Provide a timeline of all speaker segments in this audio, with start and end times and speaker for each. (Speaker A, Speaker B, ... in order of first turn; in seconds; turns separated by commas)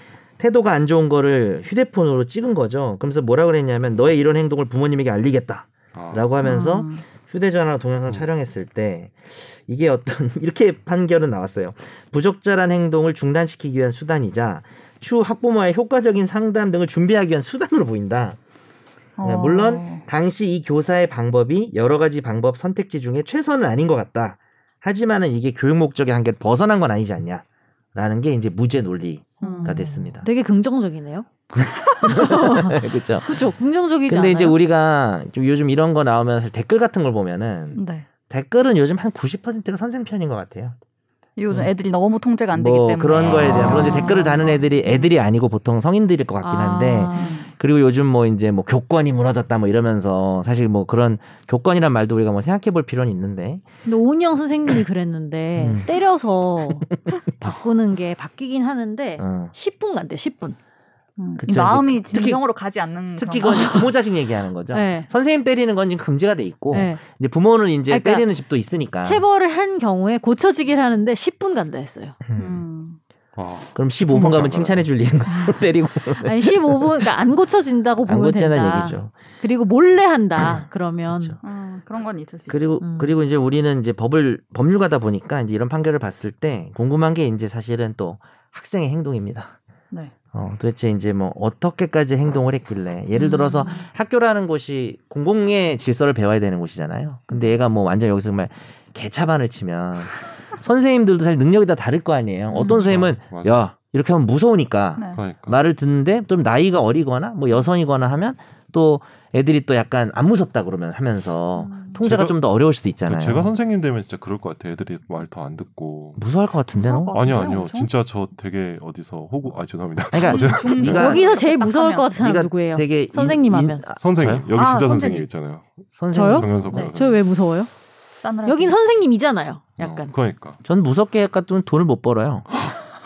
Speaker A: 0.4-18.4, Speaker B: 5.9-6.2, Speaker C: 6.4-7.0, Speaker C: 19.2-20.1, Speaker A: 19.2-30.3, Speaker C: 29.4-29.9, Speaker D: 29.4-31.3, Speaker A: 31.5-33.5, Speaker D: 32.0-34.6, Speaker A: 34.1-40.7, Speaker C: 37.7-38.1, Speaker C: 41.4-45.1, Speaker A: 42.5-53.6, Speaker B: 43.1-44.6, Speaker D: 43.5-44.4, Speaker D: 46.4-47.4, Speaker C: 47.1-47.5, Speaker D: 53.9-60.6, Speaker A: 55.6-55.9, Speaker A: 57.1-57.6, Speaker A: 59.2-59.5, Speaker C: 61.2-63.8, Speaker A: 61.4-62.4, Speaker A: 63.1-69.2, Speaker D: 63.4-63.9, Speaker D: 64.7-65.1, Speaker D: 66.7-67.0, Speaker D: 67.9-68.3, Speaker D: 69.0-72.2, Speaker A: 72.3-72.6, Speaker C: 72.4-73.0, Speaker B: 73.4-74.9, Speaker A: 73.7-76.8, Speaker D: 76.1-81.4, Speaker A: 78.1-79.1, Speaker A: 80.4-81.4, Speaker C: 81.4-82.7, Speaker A: 82.5-89.5, Speaker D: 82.8-83.1, Speaker A: 90.3-113.5, Speaker D: 93.1-93.8, Speaker D: 102.5-102.8, Speaker B: 102.8-103.6, Speaker B: 105.1-105.6, Speaker C: 111.6-112.0, Speaker B: 112.0-112.4, Speaker B: 113.0-116.2, Speaker A: 116.2-117.4, Speaker C: 116.8-117.9, Speaker B: 117.1-121.1, Speaker A: 120.1-121.2, Speaker C: 120.2-122.1, Speaker D: 120.9-123.8, Speaker A: 122.2-124.5, Speaker B: 124.0-127.2, Speaker C: 124.5-125.2, Speaker A: 126.0-126.8, Speaker D: 126.1-127.7, Speaker C: 128.2-128.8, Speaker D: 128.4-130.1, Speaker B: 129.8-130.6, Speaker A: 130.6-132.5